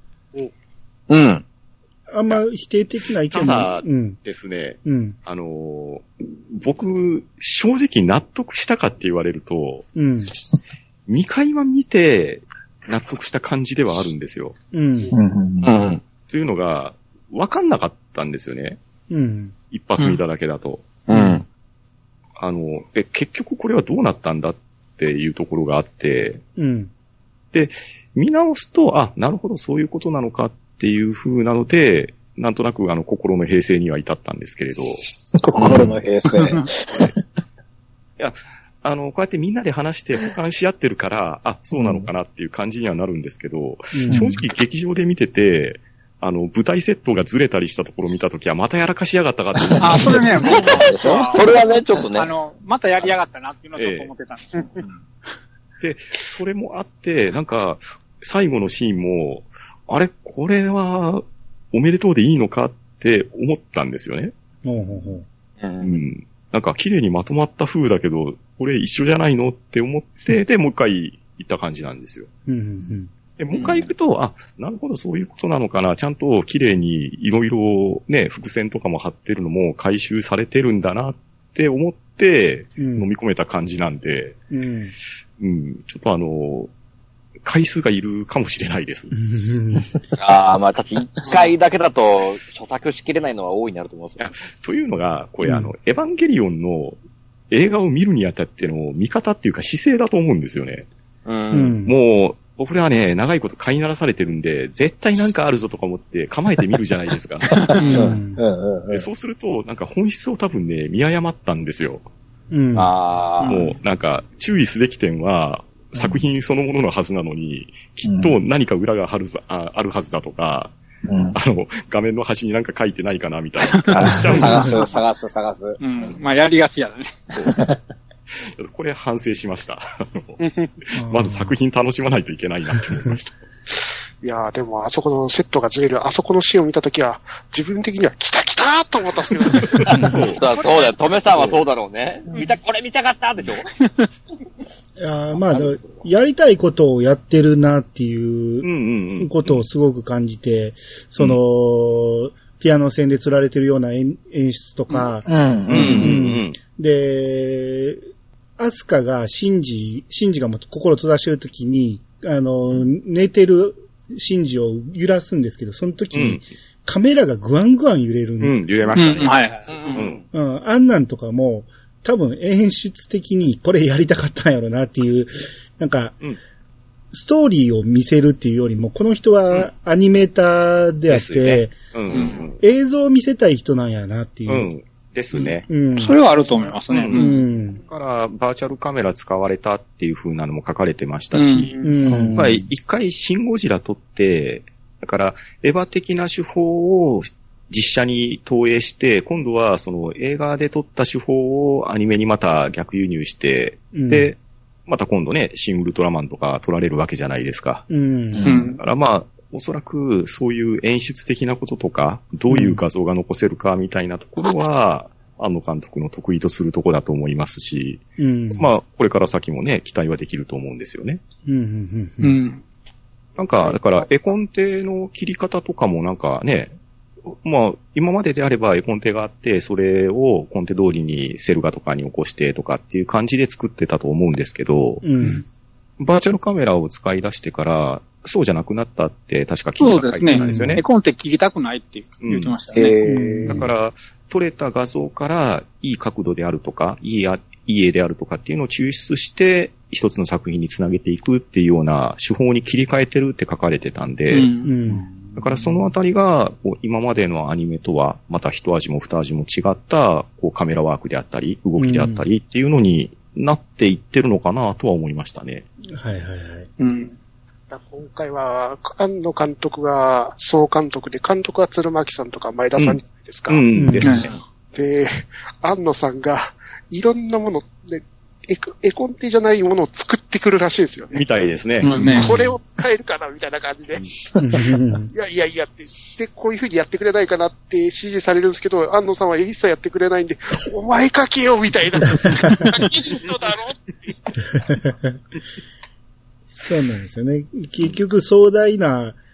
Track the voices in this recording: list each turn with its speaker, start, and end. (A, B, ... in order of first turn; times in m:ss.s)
0:01.1-0:01.4 A
0:02.1-0:04.2 B
0:03.3-0:09.8 C
0:04.8-0:05.2 B
0:09.9-0:10.3 B
0:11.1-0:14.5 C
0:14.7-0:15.1 B
0:15.1-0:15.7 D
0:15.6-0:16.0 A
0:16.3-0:18.8 C
0:19.1-0:19.5 B
0:19.7-0:20.9 C
0:21.1-0:21.4 A
0:22.4-0:26.4 C
0:26.6-0:26.9 B
0:27.5-0:35.0 C
0:35.4-0:37.2 D
0:35.6-0:36.0 C
0:38.2-0:50.6 C
0:43.9-0:44.3 B
0:44.1-0:44.4 D
0:49.6-0:51.6 D
0:49.8-0:54.8 E
0:50.2-0:52.3 A
0:53.7-0:54.1 C
0:55.8-1:04.3 C
1:04.6-1:05.2 B
1:05.6-1:06.0 A
1:05.8-1:12.3 C
1:12.5-1:13.1 B
1:13.4-1:24.4 C
1:22.8-1:23.1 B
1:24.5-1:24.9 B
1:25.4-1:26.7 C
1:27.4-1:29.1 C
1:29.1-1:30.0 B
1:30.2-1:34.3 A
1:34.2-1:37.0 C
1:37.5-1:40.9 C
1:41.2-1:41.8 A
1:41.5-1:41.9 B
1:41.8-1:48.1 C
1:47.7-1:48.1 E
1:47.8-1:48.4 B
1:47.9-1:49.0 D
1:48.9-1:52.0 C
1:52.5-1:52.9 B
1:52.7-1:53.6 A
1:53.4-1:53.7 E
1:53.4-2:00.7 C
1:55.9-1:56.2 B
1:58.0-1:58.4 D
2:01.0-2:01.4 D
2:01.3-2:04.8 C
2:03.6-2:04.9 E
2:03.9-2:05.8 D
2:05.8-2:07.1 E
2:07.4-2:07.8 D
2:08.3-2:13.3 C
2:10.4-2:10.7 F
2:10.9-2:11.5 B
2:14.2-2:20.1 F
2:19.5-2:21.6 C
2:19.8-2:23.6 A
2:25.0-2:38.0 B
2:28.6-2:29.6 C
2:34.9-2:35.1 E
2:35.2-2:36.1 D
2:35.7-2:36.6 C
2:38.6-2:48.6 B
2:46.1-2:46.4 C
2:48.4-2:49.3 C
2:48.9-2:50.1 E
2:49.7-2:50.2 A
2:49.9-2:50.2 C
2:50.3-2:56.2 B
2:57.1-3:01.7 B
3:01.1-3:02.6 C
3:02.1-3:02.5 E
3:02.6-3:04.7 B
3:04.5-3:05.6 C
3:05.4-3:07.4 E
3:05.7-3:06.2 B
3:06.7-3:11.7 C
3:07.1-3:07.8 B
3:11.3-3:11.8 E
3:11.8-3:12.6 B
3:12.1-3:12.6 D
3:12.3-3:27.9 C
3:23.9-3:24.3 B
3:27.9-3:28.6 B
3:28.4-3:28.7 D
3:28.4-3:28.8 E
3:28.8-3:38.0 C
3:32.5-3:32.8 B
3:38.2-3:38.7 B
3:38.6-3:41.2 C
3:41.4-3:42.4 B
3:42.2-3:42.6 E
3:43.4-3:46.7 C
3:47.3-3:55.4 C
3:55.0-3:55.4 B
3:56.0-4:00.8 C
3:59.8-4:03.1 E
4:00.3-4:00.8 B
4:02.2-4:02.5 C
4:02.7-4:03.7 D
4:03.0-4:03.7 B
4:03.4-4:14.5 C
4:14.3-4:14.7 E
4:14.6-4:15.8 B
4:15.3-4:25.6 C
4:21.8-4:22.2 B
4:25.9-4:26.7 B
4:26.8-4:27.1 E
4:27.7-4:33.6 F
4:32.8-4:34.4 C
4:33.7-4:34.3 B
4:34.0-4:34.3 E
4:34.7-4:41.2 F
4:41.1-4:42.4 C
4:41.8-4:42.4 E
4:42.0-4:44.1 F
4:44.4-4:45.1 B
4:45.1-4:54.1 F
4:54.7-4:55.2 B
4:56.5-4:59.2 B